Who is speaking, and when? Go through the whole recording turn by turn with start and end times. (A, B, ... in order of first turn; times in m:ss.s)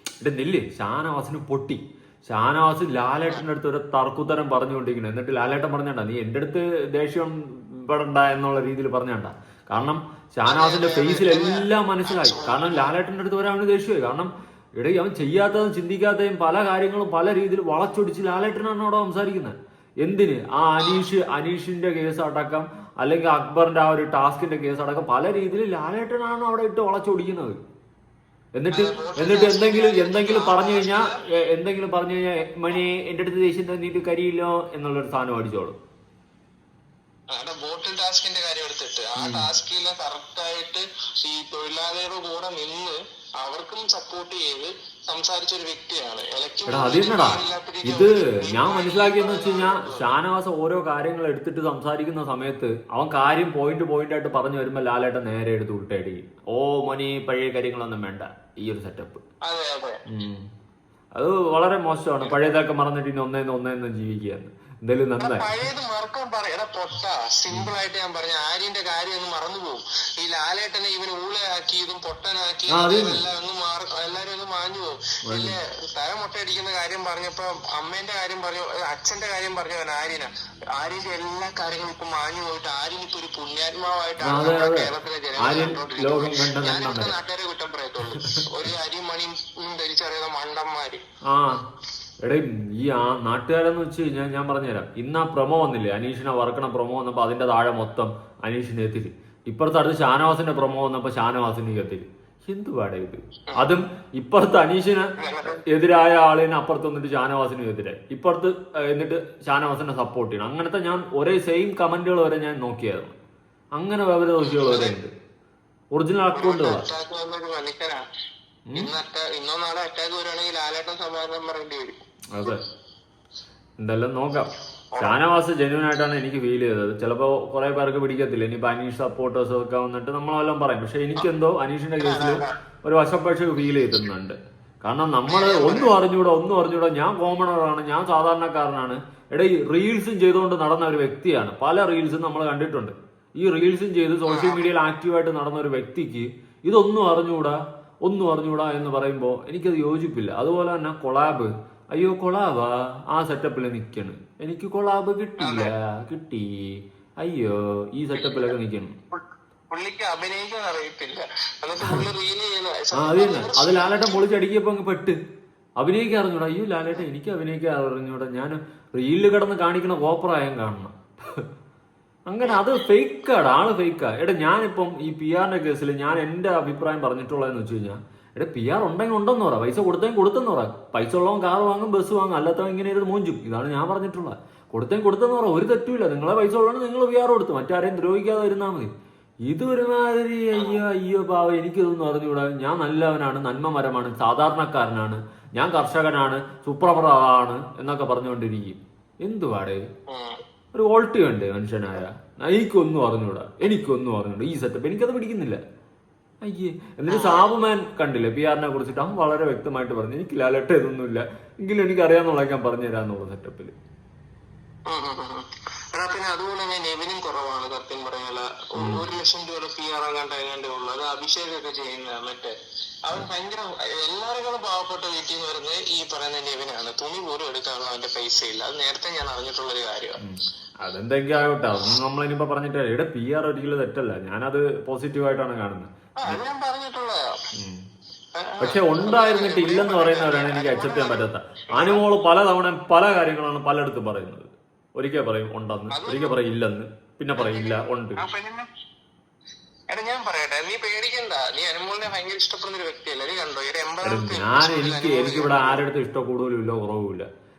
0:00.2-0:27.6 A
0:10.4-0:12.9 B
0:20.8-0:21.1 B
0:28.6-0:35.8 A
0:28.7-0:31.2 B
0:37.3-0:50.1 B
0:39.2-0:39.5 A
0:46.7-0:59.2 A
0:59.4-1:00.0 B
1:00.1-1:00.4 A
1:01.2-1:05.5 A
1:05.2-1:31.0 B
1:12.7-1:13.2 A
1:15.3-1:15.5 A
1:24.2-1:24.9 A
1:25.4-1:27.1 A
1:31.3-1:31.6 A
1:32.2-1:45.1 A
1:45.2-1:45.6 B
1:45.6-1:53.2 A
1:53.8-1:55.1 A
1:54.4-1:55.0 B
1:55.9-1:56.8 A
1:56.3-1:58.0 B
1:58.8-2:02.0 B
2:02.3-2:02.6 A
2:03.8-2:38.9 A
2:12.0-2:12.5 B
2:15.3-2:15.9 B
2:24.3-2:24.6 B
2:35.4-2:35.7 B
2:38.2-2:38.5 B
2:39.7-2:44.2 B
2:42.9-2:45.2 A
2:45.8-2:51.4 A
2:52.3-3:08.9 A
2:52.4-2:52.7 B
3:09.5-3:19.8 A
3:10.5-3:10.8 B
3:20.1-3:20.4 B
3:20.7-3:25.6 A
3:26.4-3:33.7 A
3:27.1-3:27.5 B
3:34.9-3:42.5 B
3:38.8-3:39.0 A
3:43.0-3:50.2 B
3:50.2-3:56.4 A
3:56.2-3:57.2 B
3:58.4-4:02.0 B
3:58.6-4:08.2 A
4:05.9-4:06.4 B
4:07.4-4:08.7 B
4:09.9-4:15.8 B
4:14.0-4:17.3 A